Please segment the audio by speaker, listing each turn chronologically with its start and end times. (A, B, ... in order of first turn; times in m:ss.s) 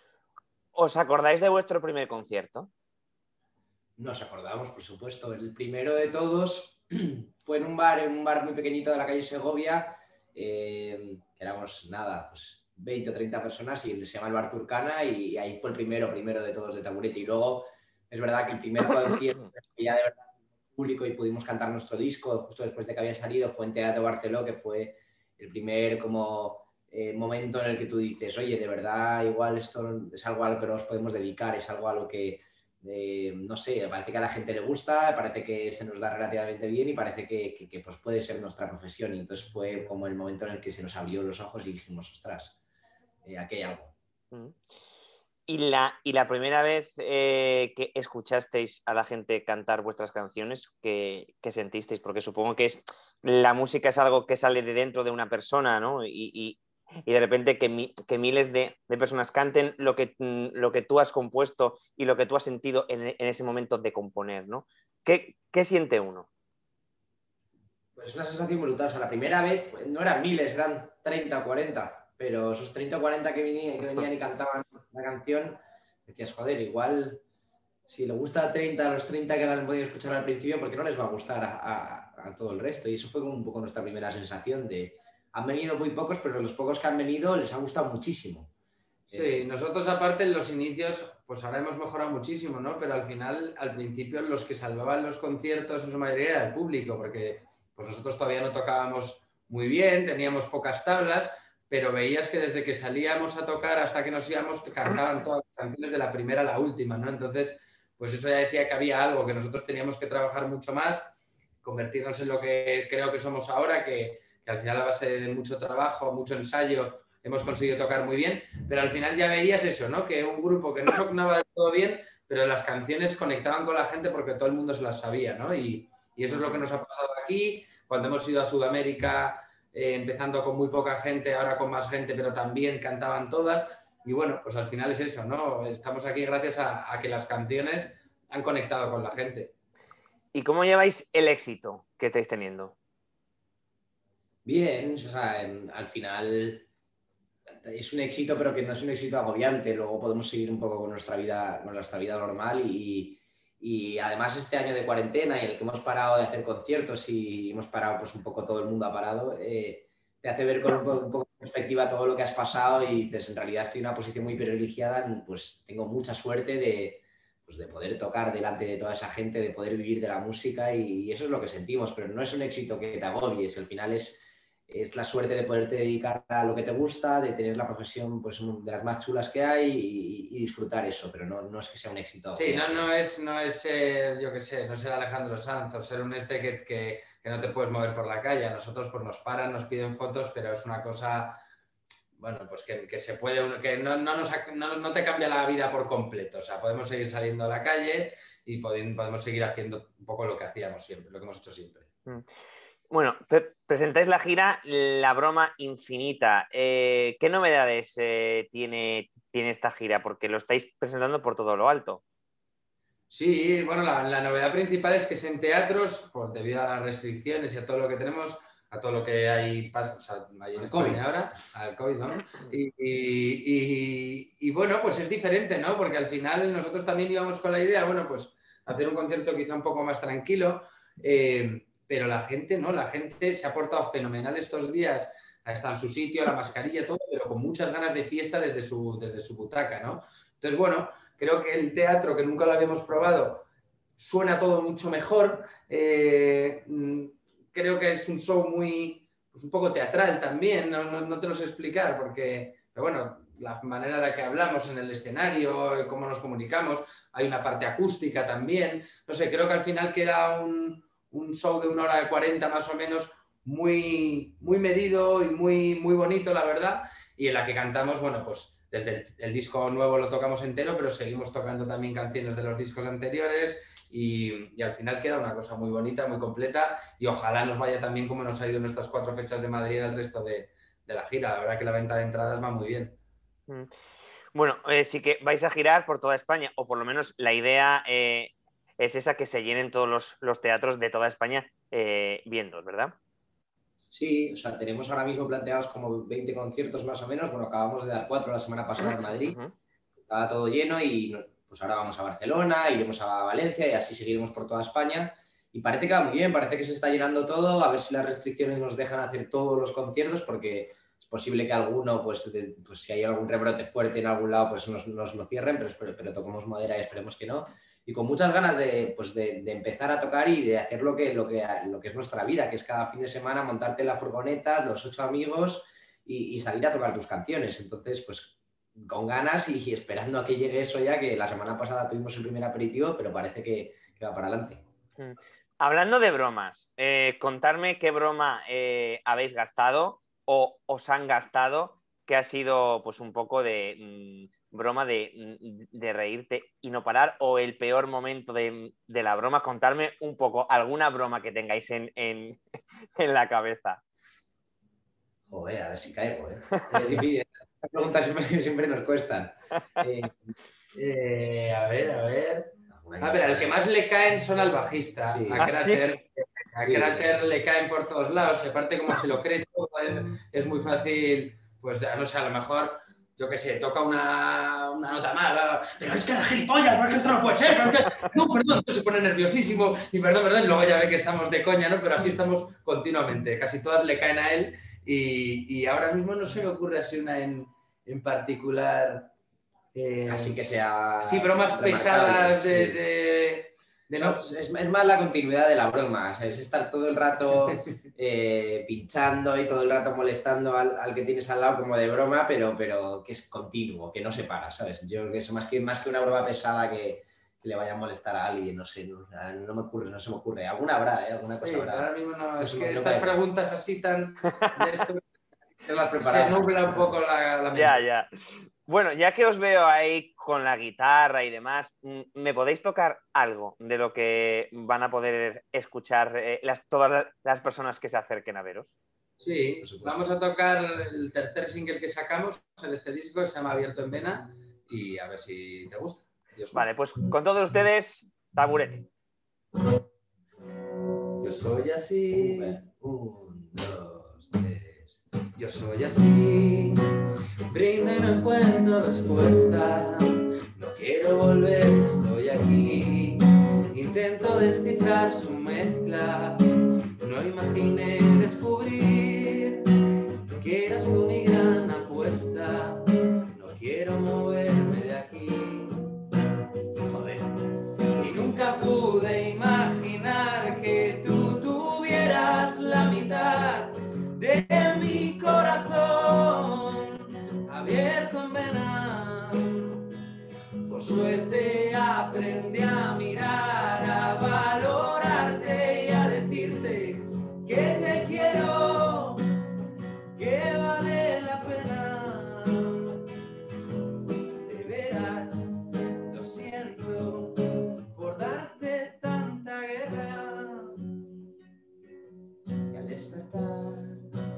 0:00.8-0:02.7 A
0:04.0-0:42.6 B
0:43.2-0:44.0 B
0:44.3-0:44.6 A
0:45.5-1:06.3 A
1:08.0-1:17.2 B
1:17.9-1:28.5 B
1:29.1-1:29.4 B
1:29.1-1:51.1 C
1:51.6-2:19.5 C
2:06.3-2:06.6 A
2:20.3-2:22.8 A
2:24.4-2:26.7 B
2:27.6-3:02.8 B
3:02.3-3:11.4 C
3:12.2-3:21.9 C
3:22.9-3:32.0 A
3:33.1-4:03.5 C
3:40.6-3:41.0 B
4:04.0-4:43.0 C
4:44.3-4:53.0 A
4:53.9-4:59.4 B
4:58.8-4:59.5 A
5:00.1-5:34.6 B
5:35.0-5:52.4 A
5:53.0-5:53.8 A
5:55.3-6:00.3 B
6:00.8-6:29.1 C
6:02.7-6:03.6 B
6:05.0-6:05.5 B
6:05.4-6:05.8 A
6:06.6-6:07.2 B
6:29.7-6:30.4 C
6:30.1-6:32.8 B
6:31.0-6:34.3 C
6:33.9-6:53.2 B
6:51.4-6:55.0 C
6:55.6-6:57.0 B
6:56.0-6:57.8 C
6:57.5-6:58.1 A
6:58.7-7:08.7 A
7:09.2-7:16.7 C
7:09.6-7:10.1 B
7:16.5-7:18.9 A
7:21.2-7:22.6 C
7:22.1-7:25.0 B
7:25.4-7:26.8 C
7:27.5-7:36.4 C
7:37.0-7:45.9 C
7:46.8-7:47.4 C
7:47.9-7:59.9 C
8:00.6-8:09.3 C
8:10.2-8:13.0 C
8:14.4-8:20.8 C
8:22.7-8:24.0 B